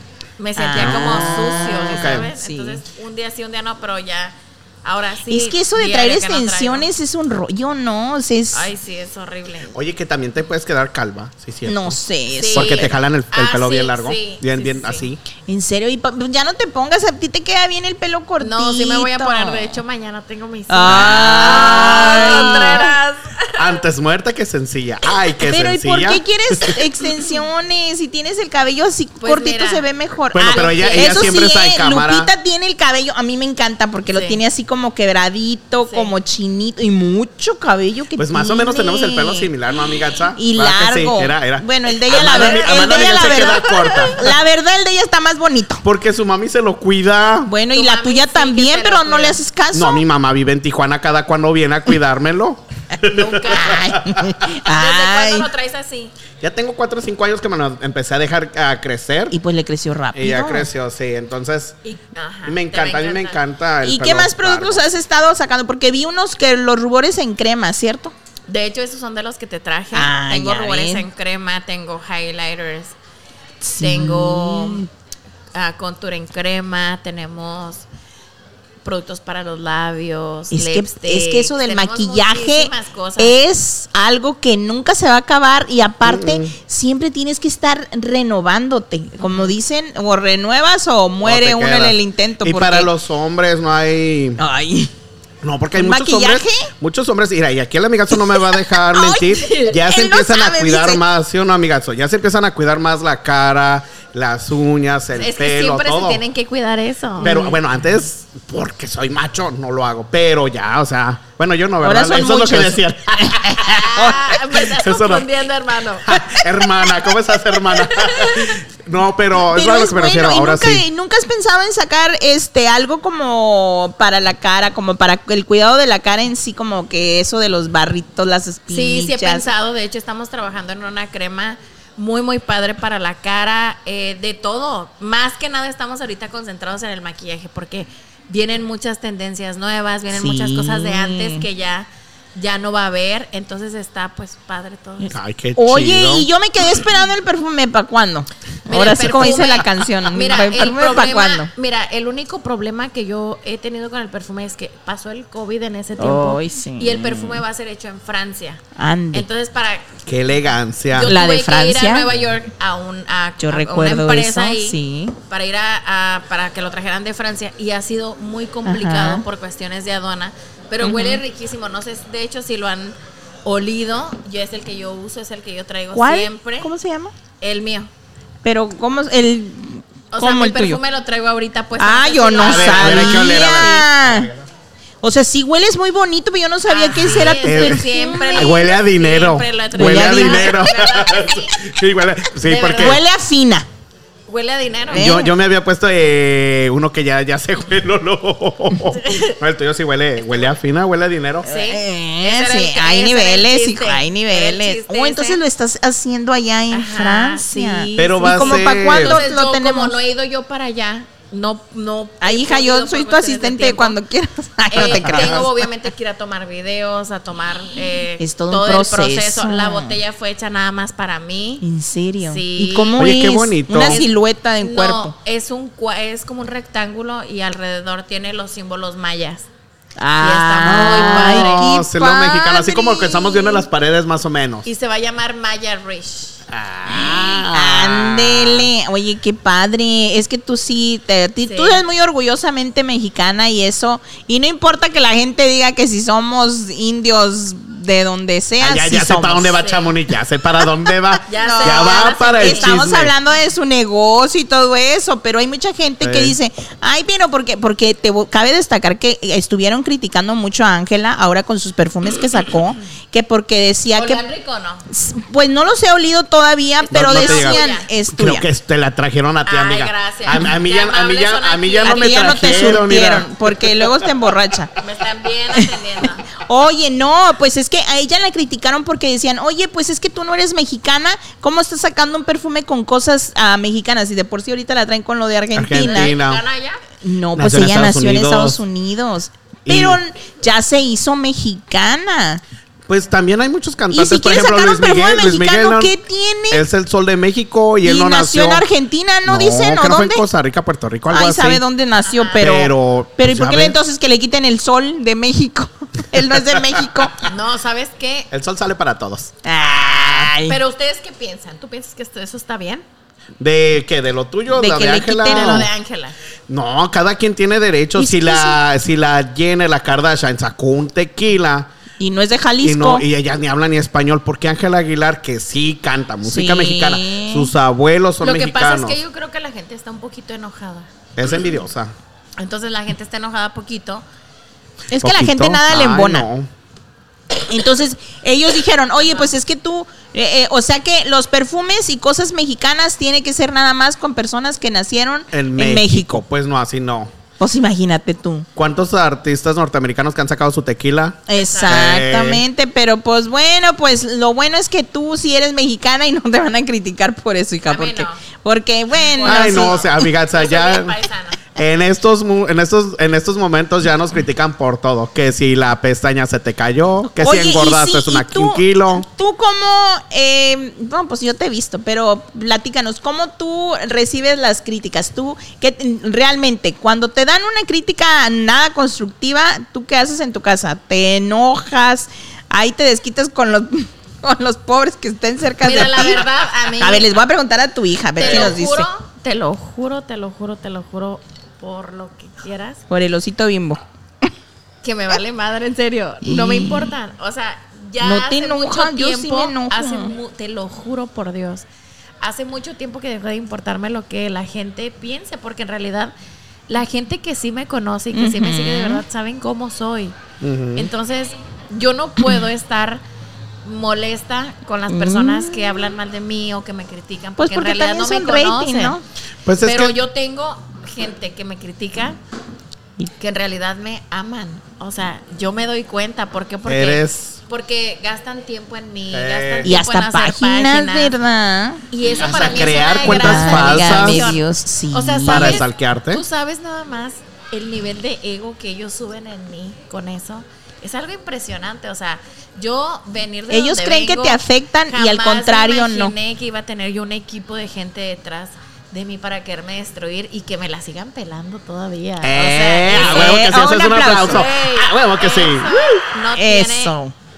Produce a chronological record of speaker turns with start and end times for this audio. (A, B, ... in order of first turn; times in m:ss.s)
0:00.4-0:06.9 A
0:00.6-0:02.8 B
0:00.8-0:02.3 C
0:05.3-0:08.7 B
0:08.5-0:09.7 A
0:09.7-0:12.0 C
0:11.6-0:12.9 B
0:12.4-0:15.1 A
0:12.5-0:15.2 C
0:15.5-0:19.8 B
0:18.4-0:23.8 A
0:20.7-0:22.9 B
0:20.9-0:22.8 C
0:23.6-0:26.8 C
0:25.4-0:39.5 B
0:29.2-0:29.8 A
0:30.3-0:32.3 C
0:30.4-0:31.4 A
0:34.1-0:34.4 A
0:35.9-0:36.1 A
0:38.2-0:44.4 C
0:40.4-0:45.8 B
0:42.1-0:42.9 A
0:45.8-0:47.5 C
0:47.5-0:50.0 B
0:47.7-0:49.4 A
0:49.7-0:54.3 C
0:53.0-0:56.1 A
0:53.4-0:55.5 B
0:56.4-0:59.4 C
0:59.3-1:00.7 B
1:00.1-1:01.8 C
1:01.8-1:03.4 A
1:02.4-1:04.8 C
1:03.8-1:08.1 B
1:08.5-1:12.9 A
1:09.9-1:11.0 B
1:13.6-1:14.9 B
1:13.8-1:14.9 A
1:15.5-1:17.9 A
1:18.8-1:23.4 A
1:20.5-1:32.9 B
1:26.0-1:26.5 C
1:31.2-1:34.4 C
1:34.4-1:34.9 B
1:35.4-1:46.2 C
1:35.8-1:36.7 B
1:38.1-1:41.0 B
1:39.4-1:39.7 A
1:45.1-1:47.5 A
1:47.2-1:54.0 C
1:47.2-1:47.5 B
1:51.8-1:54.4 B
1:53.6-1:56.1 A
1:54.6-1:55.3 C
1:56.0-2:00.8 C
1:56.2-1:56.9 B
1:57.9-1:58.6 A
1:59.4-2:09.4 B
2:08.7-2:25.1 A
2:20.1-2:21.4 B
2:25.1-2:26.3 C
2:25.6-2:31.5 B
2:28.7-2:39.9 A
2:36.0-2:37.4 B
2:38.8-2:39.2 B
2:40.0-2:41.1 C
2:40.9-2:56.7 A
2:41.0-2:42.1 B
2:43.4-2:45.2 B
2:48.6-2:49.2 B
2:50.8-2:51.2 B
2:55.9-2:57.1 B
2:57.4-2:57.9 A
2:58.4-3:00.8 B
3:00.1-3:03.6 A
3:01.8-3:04.3 B
3:02.4-3:04.4 C
3:05.0-3:08.6 B
3:06.7-3:11.6 A
3:07.1-3:13.0 C
3:09.7-3:10.7 B
3:12.4-3:13.0 A
3:12.7-3:13.6 B
3:14.3-3:15.2 A
3:14.9-3:15.3 B
3:14.9-3:21.5 C
3:19.0-3:19.4 A
3:21.4-3:25.4 A
3:21.4-3:30.0 B
3:26.7-3:34.0 A
3:28.0-3:29.2 C
3:32.2-3:35.6 B
3:34.7-3:41.6 A
3:34.7-3:35.4 C
3:38.2-3:40.0 B
3:41.6-3:45.1 B
3:42.2-3:43.1 A
3:43.0-3:44.0 C
3:43.8-3:49.5 A
3:50.0-3:53.6 B
3:50.2-3:51.7 A
3:50.6-3:54.7 C
3:54.6-3:56.4 A
3:56.5-3:58.7 C
3:56.9-4:09.6 B
4:01.4-4:01.8 A
4:08.6-4:13.1 C
4:09.6-4:09.9 A
4:11.3-4:12.8 A
4:11.4-4:24.2 B
4:16.0-4:16.4 C
4:23.9-4:24.9 A
4:24.9-4:28.4 B
4:26.8-4:27.9 A
4:26.9-4:34.1 C
4:29.4-4:32.8 A
4:31.8-4:34.7 B
4:34.8-4:36.3 A
4:36.4-4:46.1 B
4:45.5-4:46.4 C
4:45.8-4:46.8 A
4:47.0-4:52.4 B
4:47.4-4:48.6 C
4:49.6-4:50.0 C
4:52.9-4:55.9 C
4:53.9-4:56.6 B
4:56.5-4:58.6 C
4:57.8-5:00.2 B
4:59.2-5:01.6 C
5:01.1-5:07.2 B
5:02.0-5:02.4 A
5:02.4-5:03.8 C
5:06.4-5:07.0 C
5:07.2-5:08.3 A
5:08.3-5:10.4 C
5:09.4-5:10.6 B
5:10.4-5:12.8 A
5:13.4-5:15.7 C
5:14.5-5:15.7 B
5:15.2-5:16.1 A
5:16.5-5:21.7 C
5:18.0-5:18.6 B
5:22.0-5:23.0 B
5:22.6-5:29.0 C
5:26.2-5:27.5 B
5:28.2-5:30.9 A
5:31.2-5:31.9 C
5:32.4-5:34.0 A
5:34.9-5:36.2 B
5:34.9-5:36.5 C
5:37.5-5:46.2 B
5:45.3-5:47.1 C
5:47.4-5:48.5 B
5:48.6-5:52.4 C
5:51.3-5:59.9 B
5:51.4-5:51.9 A
5:57.7-5:58.2 A
5:59.0-6:01.4 A
5:59.2-6:01.0 C
6:01.5-6:09.1 C
6:07.1-6:28.9 B
6:25.6-6:27.1 A
6:28.2-6:32.8 A
6:28.2-6:28.5 C
6:32.9-6:34.3 B
6:34.8-6:41.6 A
6:36.2-6:36.9 B
6:38.0-6:40.1 B
6:42.2-6:46.1 A
6:46.7-6:50.1 A
6:48.1-6:49.0 B
6:50.4-6:50.9 C
6:50.7-6:53.0 A
6:53.6-6:59.0 A
6:54.9-6:55.9 B
6:57.4-6:59.0 B
6:59.4-7:00.0 C
6:59.6-7:02.2 A
7:03.1-7:11.1 A
7:06.6-7:07.4 C
7:09.1-7:09.8 C
7:09.6-7:11.8 B
7:11.9-7:33.5 A
7:12.1-7:14.3 C
7:12.8-7:15.6 B
7:15.2-7:16.2 C
7:23.5-7:26.1 B
7:32.2-7:36.0 C
7:32.9-7:34.5 B
7:34.2-7:37.0 A
7:36.4-7:37.1 B